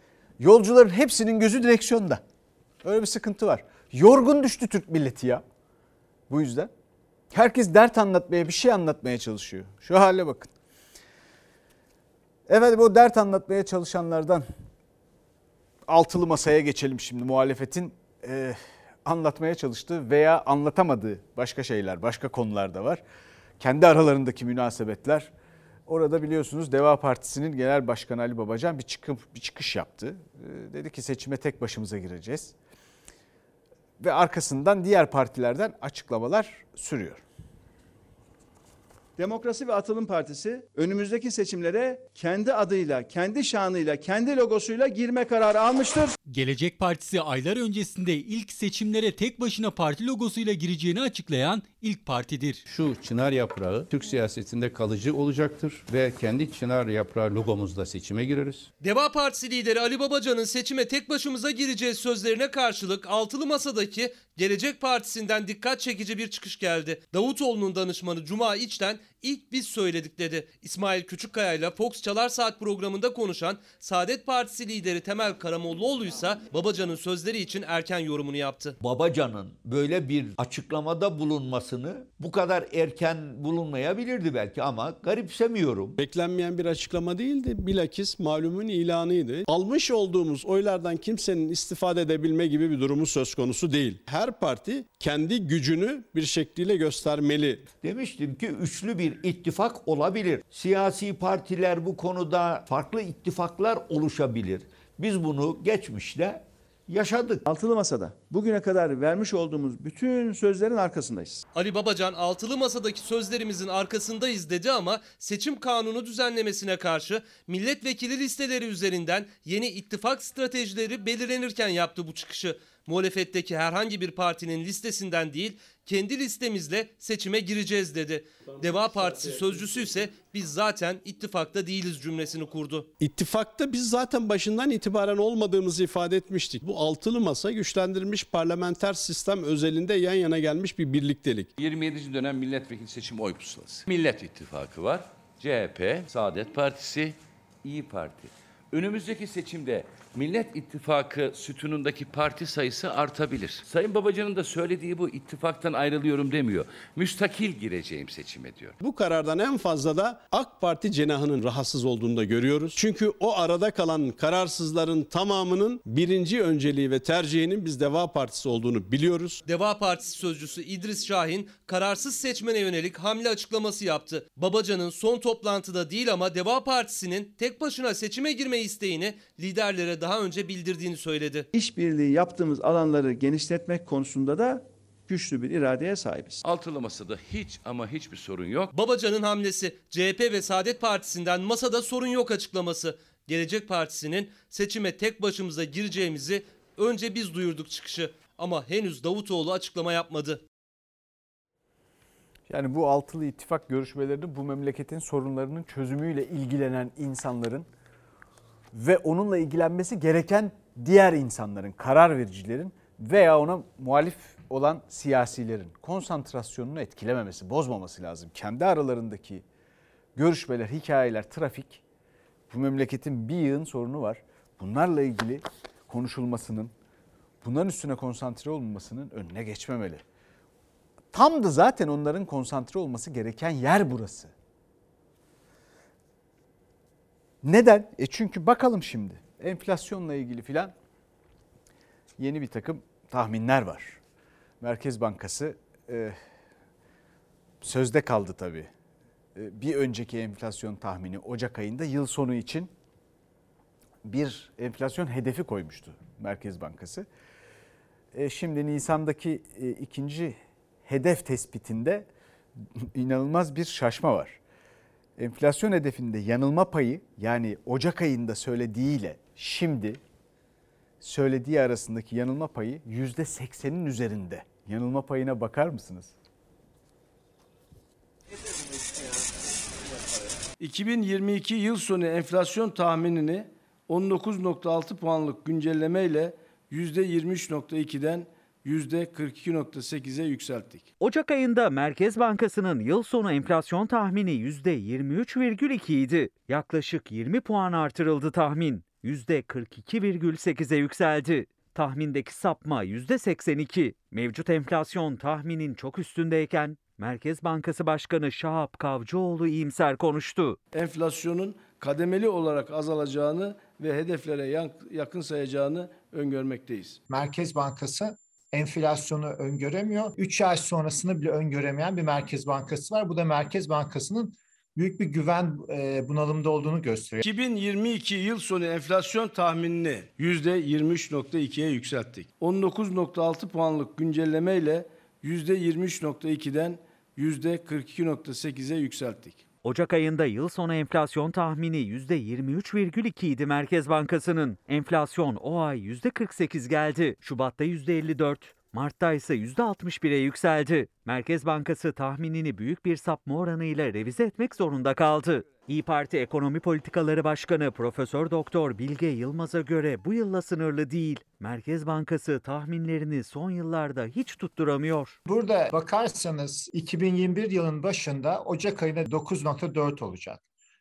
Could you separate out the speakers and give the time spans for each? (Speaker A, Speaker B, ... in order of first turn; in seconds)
Speaker A: 0.4-2.2, 2.8-5.4, 6.3-6.7, 7.3-10.5, 12.5-14.4, 15.9-23.0, 23.6-25.3, 25.9-32.5, 34.0-37.2, 202.5-207.7, 208.7-219.4, 220.2-221.8, 222.5-226.7, 227.4-230.0, 231.1-234.3, 237.4-240.7, 242.2-244.0, 244.6-246.2, 247.6-248.7, 249.3-252.7, 254.0-257.1, 258.1-262.1, 262.8-264.4, 265.2-270.0, 271.0-276.1
Speaker B: 39.2-46.2, 107.5-111.4, 181.5-186.4
Speaker C: 46.2-52.6
Speaker D: 52.6-58.7
Speaker E: 58.8-78.8, 111.5-132.9, 169.4-181.5, 188.7-200.4
Speaker F: 78.8-86.0, 97.8-107.5
Speaker G: 86.0-97.6, 133.0-141.5, 158.8-169.4
Speaker H: 141.6-158.8, 186.4-188.7
Speaker I: 280.6-290.9, 310.7-317.0, 327.2-339.4
Speaker J: 291.0-310.6, 339.6-365.2
Speaker K: 317.1-327.2, 365.2-370.4